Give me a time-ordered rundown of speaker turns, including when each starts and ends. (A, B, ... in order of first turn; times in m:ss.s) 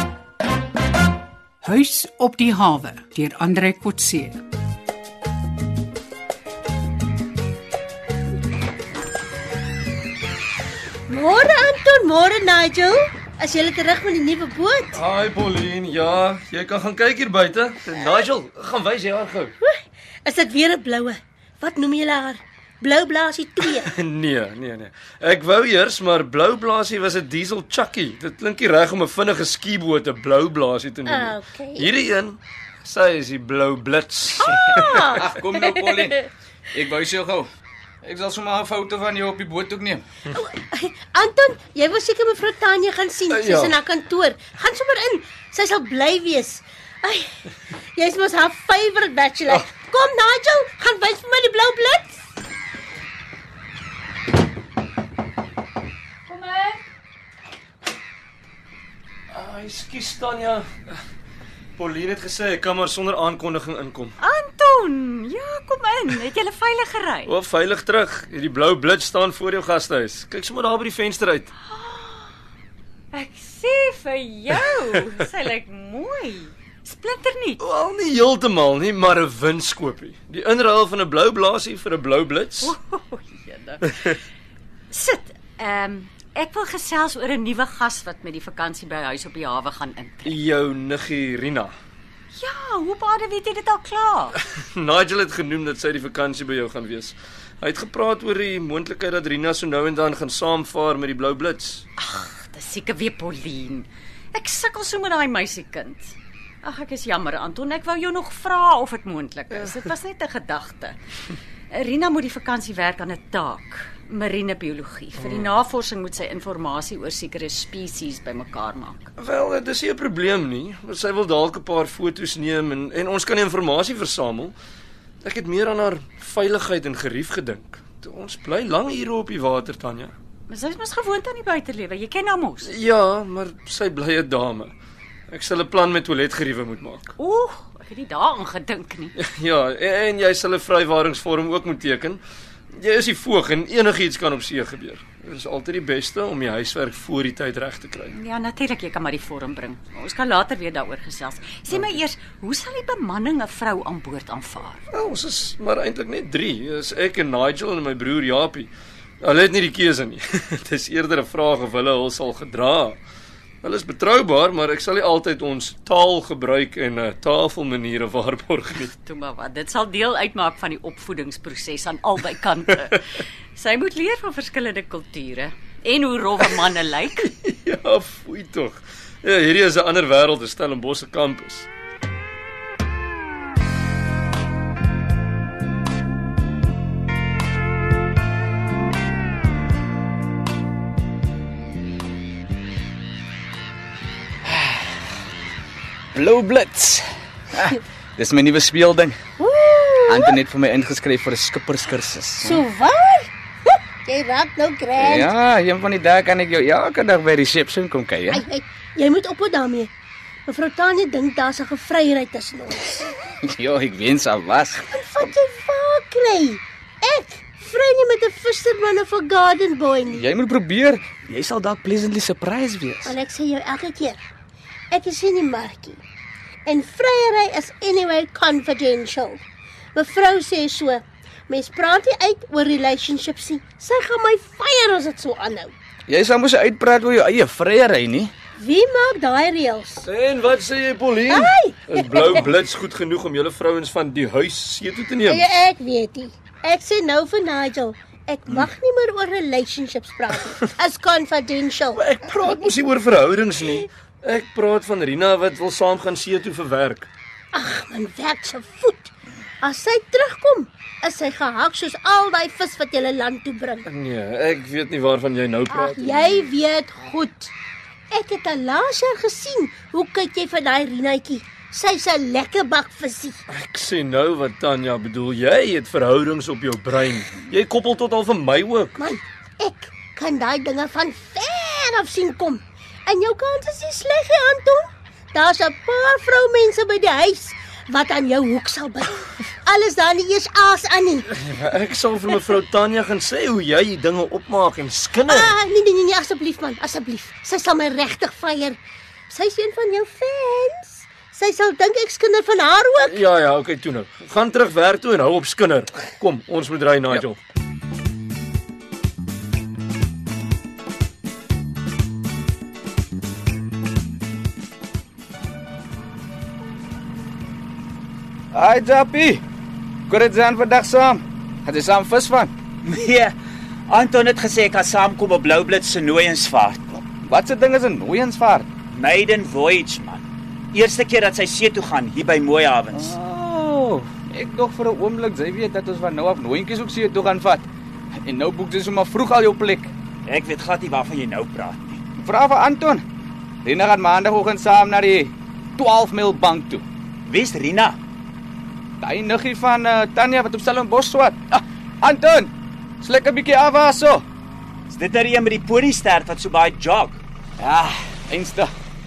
0:01.6-0:04.4 A
0:11.1-0:15.0 B
0:14.9-0:19.6 C
0:19.6-0:23.9 B
0:23.7-0:35.0 C
0:31.0-0:31.9 B
0:34.4-0:36.1 B
0:35.0-0:37.5 D
0:38.0-0:40.0 D
0:40.3-0:47.4 B
0:43.3-0:43.8 C
0:48.0-0:52.2 B
0:56.3-0:56.8 E
0:59.3-1:01.0 C
1:01.8-1:04.2 C
1:04.2-1:07.3 E
1:07.2-1:11.5 C
1:11.7-1:12.3 E
1:13.1-1:17.6 E
1:17.6-1:22.7 C
1:22.6-1:23.9 E
1:23.9-1:24.2 C
1:24.9-1:30.4 E
1:30.2-1:31.8 C
1:32.3-1:34.4 E
1:34.6-1:41.9 C
1:42.0-1:51.0 E
1:51.7-1:59.1 E
1:55.2-1:55.5 C
1:59.2-2:04.6 C
2:05.2-2:10.1 C
2:10.5-2:12.7 E
2:12.7-2:14.7 C
2:15.3-2:17.1 C
2:17.2-2:19.1 E
2:19.2-2:22.2 C
2:22.7-2:28.2 C
2:28.2-2:34.8 E
2:31.7-2:32.0 C
2:34.9-2:43.0 C
2:43.6-2:48.9 C
2:48.9-2:57.3 E
2:57.2-3:01.7 C
3:16.1-3:19.2 D
3:19.4-3:20.4 B
3:20.1-3:22.6 D
3:22.4-3:25.3 B
3:25.0-3:28.4 D
3:28.3-3:29.9 B
3:30.5-3:33.0 B
3:33.4-3:34.8 D
3:34.9-3:40.3 B
3:40.1-3:43.1 D
3:43.0-3:44.3 B
3:44.9-3:46.0 B
3:46.7-3:49.4 B
3:50.0-3:55.7 B
3:56.1-3:58.3 D
3:58.6-4:00.0 B
4:00.0-4:05.6 C
4:01.3-4:02.5 B
4:05.3-4:12.0 B
4:11.9-4:17.1 C
4:17.5-4:23.8 B
4:23.8-4:26.5 C
4:25.7-4:27.5 B
4:28.1-4:33.4 B
4:33.5-4:39.0 C
4:39.0-4:51.3 B
4:51.3-4:55.6 C
4:55.2-4:58.8 B
4:59.3-5:03.3 B
5:03.0-5:07.4 C
5:18.5-5:19.4 D
5:20.1-5:22.5 D
5:22.8-5:23.3 F
5:23.9-5:27.0 F
5:27.0-5:28.7 D
5:28.9-5:33.1 F
5:32.9-5:37.7 D
5:38.2-5:39.9 D
5:40.2-5:42.0 F
5:42.2-5:43.0 D
5:43.6-5:46.8 D
5:47.3-5:48.0 F
5:49.0-5:54.2 D
5:54.9-5:57.2 F
5:57.6-5:58.7 D